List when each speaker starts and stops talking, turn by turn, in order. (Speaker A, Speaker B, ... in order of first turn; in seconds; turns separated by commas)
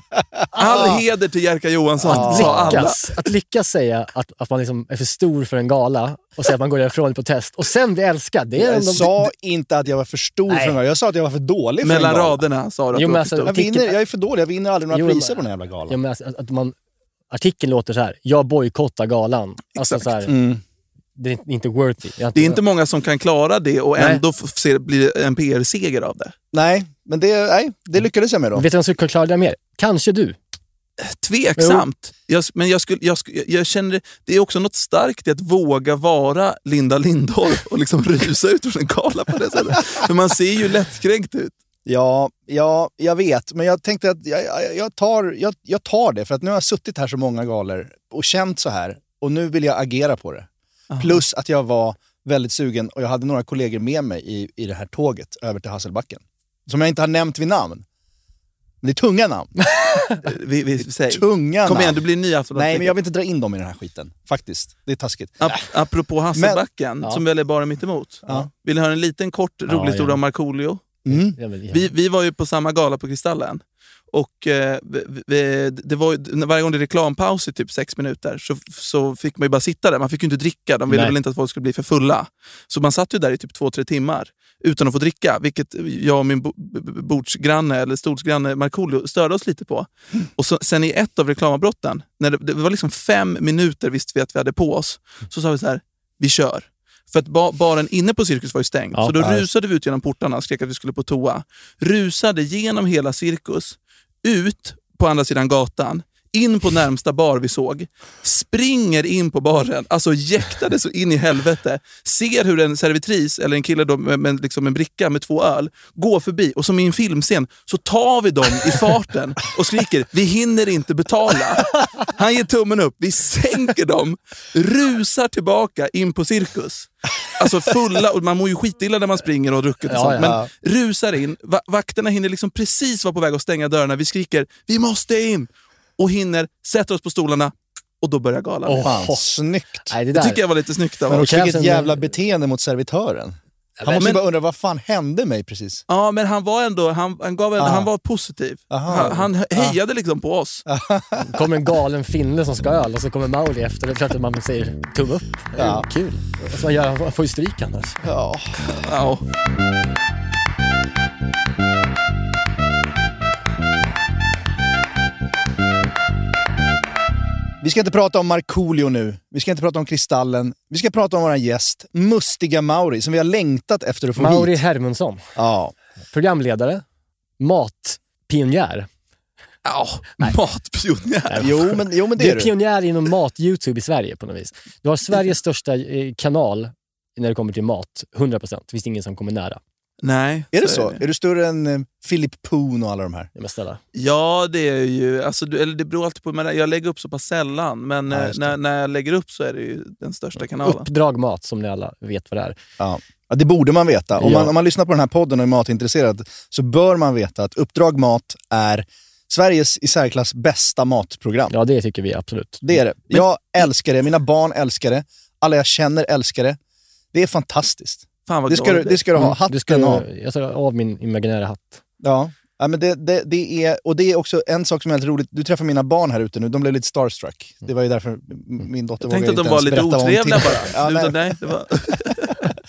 Speaker A: 0.1-1.0, Speaker B: 0.5-3.0, Speaker A: 2.0-2.9, Speaker C: 2.1-9.3, Speaker A: 8.6-12.4, Speaker C: 10.5-10.8, Speaker B: 11.8-13.5, Speaker C: 12.9-14.0, Speaker A: 13.4-16.0, Speaker C: 14.9-16.7, Speaker C: 17.3-20.4, Speaker A: 20.2-20.6, Speaker C: 21.2-22.6, Speaker B: 22.3-26.3, Speaker A: 26.5-28.6, Speaker C: 28.6-30.4, Speaker B: 31.0-41.5, Speaker C: 31.6-31.8, Speaker A: 41.9-50.5, Speaker B: 50.9-51.2, Speaker A: 51.0-57.8, Speaker A: 58.8-59.5, Speaker C: 59.8-60.2, Speaker B: 60.2-63.0, Speaker A: 61.1-62.0, Speaker A: 62.5-65.5, Speaker B: 65.4-71.0, Speaker A: 66.3-66.6, Speaker C: 69.7-70.2, Speaker A: 71.0-71.4, Speaker C: 71.1-71.9, Speaker B: 71.7-138.9, Speaker C: 80.9-81.1, Speaker A: 99.2-99.5, Speaker C: 129.9-130.4, Speaker A: 130.2-130.5, Speaker C: 138.7-139.2, Speaker A: 138.8-139.9, Speaker C: 139.9-140.4, Speaker B: 140.1-141.3, Speaker A: 141.1-145.8, Speaker C: 141.1-142.1, Speaker C: 143.8-144.1, Speaker B: 143.9-144.2, Speaker B: 145.9-150.6, Speaker A: 147.6-147.9, Speaker A: 148.7-149.8, Speaker A: 150.7-151.4, Speaker C: 151.2-158.0, Speaker A: 155.6-155.8, Speaker A: 158.0-158.5, Speaker B: 158.8-159.2, Speaker A: 167.6-174.6, Speaker C: 174.2-175.2, Speaker A: 175.3-175.7, Speaker C: 176.1-176.8, Speaker C: 177.4-178.9, Speaker B: 179.6-181.6, Speaker C: 181.3-189.6, Speaker A: 181.3-182.5, Speaker B: 190.0-191.0, Speaker A: 190.5-193.3, Speaker C: 193.3-193.8, Speaker B: 193.9-200.9, Speaker A: 198.1-198.6, Speaker C: 200.6-202.6, Speaker A: 202.8-211.5, Speaker C: 204.2-204.5, Speaker C: 211.5-213.2, Speaker A: 212.6-216.6, Speaker A: 217.1-220.0, Speaker B: 218.3-219.1, Speaker C: 219.2-221.8, Speaker A: 222.0-231.4, Speaker B: 229.0-232.3